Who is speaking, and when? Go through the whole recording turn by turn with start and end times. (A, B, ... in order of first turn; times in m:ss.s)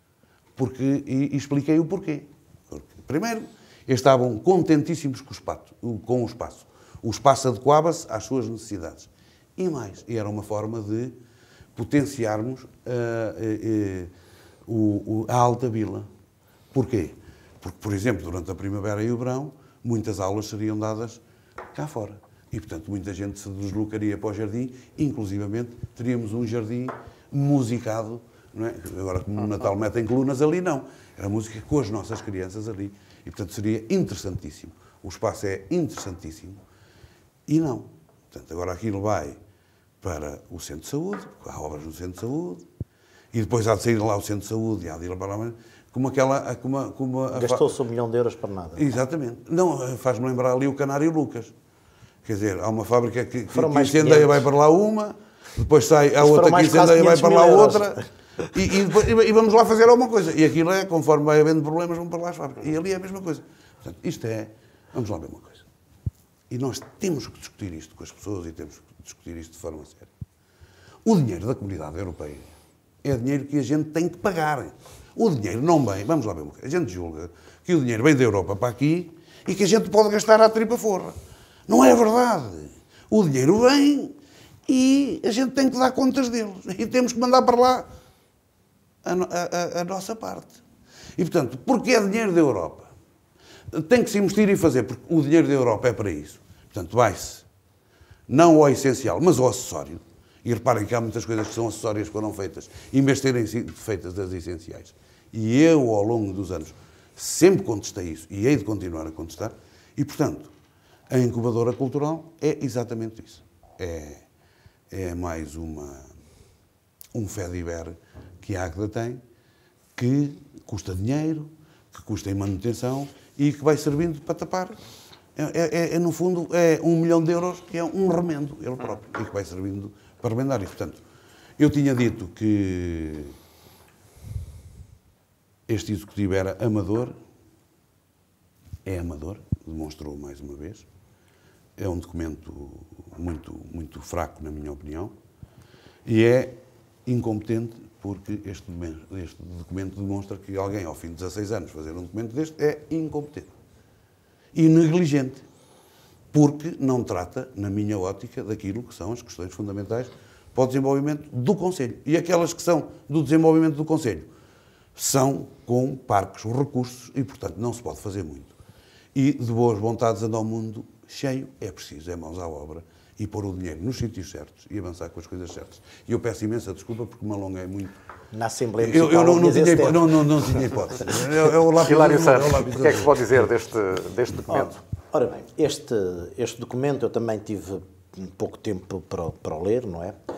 0:00.6-0:11.2 A
0:11.8-0:14.1 A
0:14.7-0:16.1 A
0:16.7-0:21.2 A
0:21.7-0:36.6 A
0:37.5-0:39.4 A
0:40.0-0:42.6 A
0:43.3-0:47.7 A
0:47.3-0:48.8 B
0:48.8-0:51.5 A
0:52.2-0:58.0 A
0:53.5-0:54.5 B
0:56.2-0:58.0 B
0:58.5-1:05.6 A
1:06.5-1:10.1 A
1:11.0-1:12.4 A
1:13.0-1:21.2 A
1:21.7-1:27.9 A
1:29.0-1:30.6 A
1:31.2-1:32.9 A
1:33.7-1:37.4 A
1:38.3-1:50.5 A
1:51.1-1:54.2 A
1:54.9-1:56.1 A
1:57.1-1:59.2 A
2:00.0-2:04.8 A
2:05.4-2:11.0 A
2:11.6-2:13.4 A
2:15.7-2:17.2 A
2:18.8-2:20.9 A
2:21.8-2:25.1 A
2:26.0-2:33.5 A
2:34.5-2:35.5 A
2:36.3-2:44.3 A
2:45.0-2:48.5 A
2:49.1-2:58.0 A
2:58.3-3:00.8 B
2:58.8-3:03.5 A
3:01.7-3:04.8 C
3:04.5-3:10.2 B